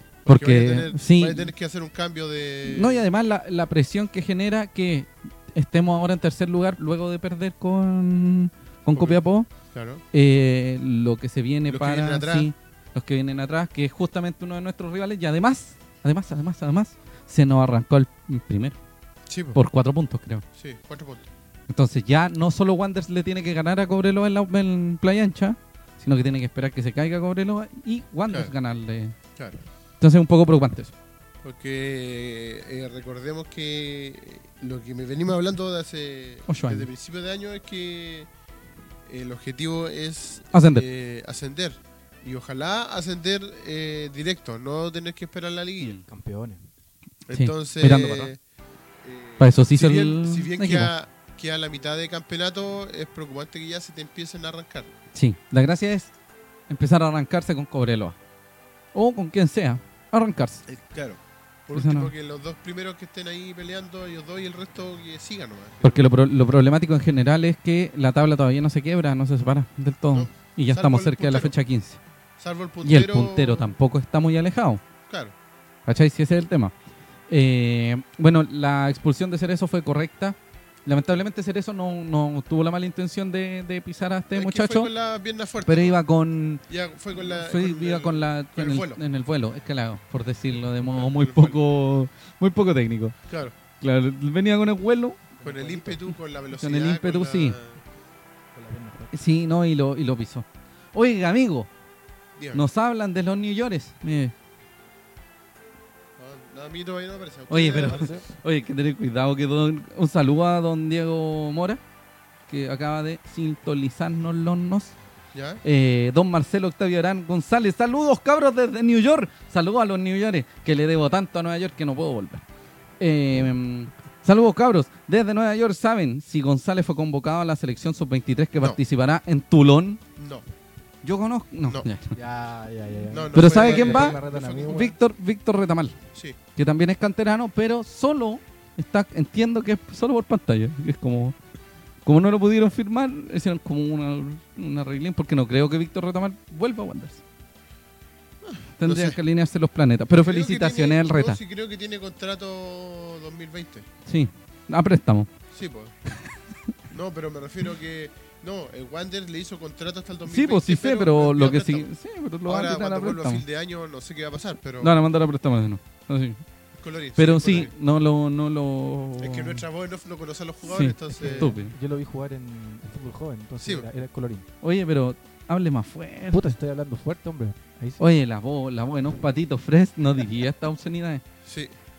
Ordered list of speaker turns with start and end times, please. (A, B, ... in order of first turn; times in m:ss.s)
0:00.3-0:03.0 A
0:00.3-0:01.5 B
0:02.6-0:09.5 B
0:09.7-0:10.0 A
0:10.1-0:18.8 B
0:11.7-0:12.5 A
0:19.3-0:19.6 A
0:19.5-0:20.4 B
0:20.6-0:21.3 A
0:21.7-0:29.2 B
0:30.0-0:30.9 B
0:31.4-0:38.3 A
0:36.5-0:36.9 B
0:39.1-0:46.0 A
0:40.5-0:40.8 B
0:46.0-0:46.6 C
0:47.3-0:48.4 A
0:47.3-0:48.3 B
0:49.0-0:54.9 A
0:49.4-0:50.9 B
0:55.1-0:56.1 B
0:56.7-0:58.2 B
0:58.9-1:00.6 B
1:00.7-1:06.0 A
1:01.7-1:02.1 B
1:05.8-1:12.0 B
1:10.1-1:11.5 A
1:12.4-1:13.7 A
1:12.8-1:14.8 B
1:15.1-1:15.3 A
1:15.9-1:16.7 B
1:17.3-1:24.9 B
1:24.4-1:26.0 A
1:25.7-1:26.6 B
1:26.7-1:29.0 A
1:27.4-1:33.2 B
1:30.8-1:31.6 A
1:33.3-1:33.5 A
1:33.8-1:35.2 B
1:35.4-1:36.0 C
1:35.4-1:37.8 A
1:36.5-1:37.6 B
1:38.5-1:39.1 C
1:39.1-1:41.7 B
1:42.4-1:42.6 A
1:42.5-1:44.3 B
1:46.2-1:48.2 A
1:47.5-1:51.8 B
1:47.8-1:48.2 C
1:52.5-1:55.0 B
1:55.3-1:55.6 A
1:55.6-2:02.4 B
2:03.0-2:10.0 B
2:10.2-2:10.4 A
2:11.0-2:12.2 B
2:12.2-2:15.0 C
2:13.1-2:14.8 A
2:13.3-2:16.0 B
2:16.6-2:21.4 B
2:22.0-2:27.2 B
2:28.4-2:29.2 A
2:28.8-2:31.4 B
2:30.1-2:33.9 A
2:34.1-2:35.3 B
2:35.5-2:35.9 A
2:36.9-2:41.9 A
2:40.3-2:43.4 B
2:42.5-2:45.0 A
2:44.8-2:46.4 B
2:46.8-2:47.7 A
2:47.2-2:49.6 B
2:49.2-2:51.6 A
2:50.6-2:51.8 B
2:51.1-2:54.5 C
2:53.6-2:53.9 A
2:54.6-2:56.5 B
2:56.3-2:58.0 C
2:58.0-3:01.2 B
3:01.5-3:01.7 A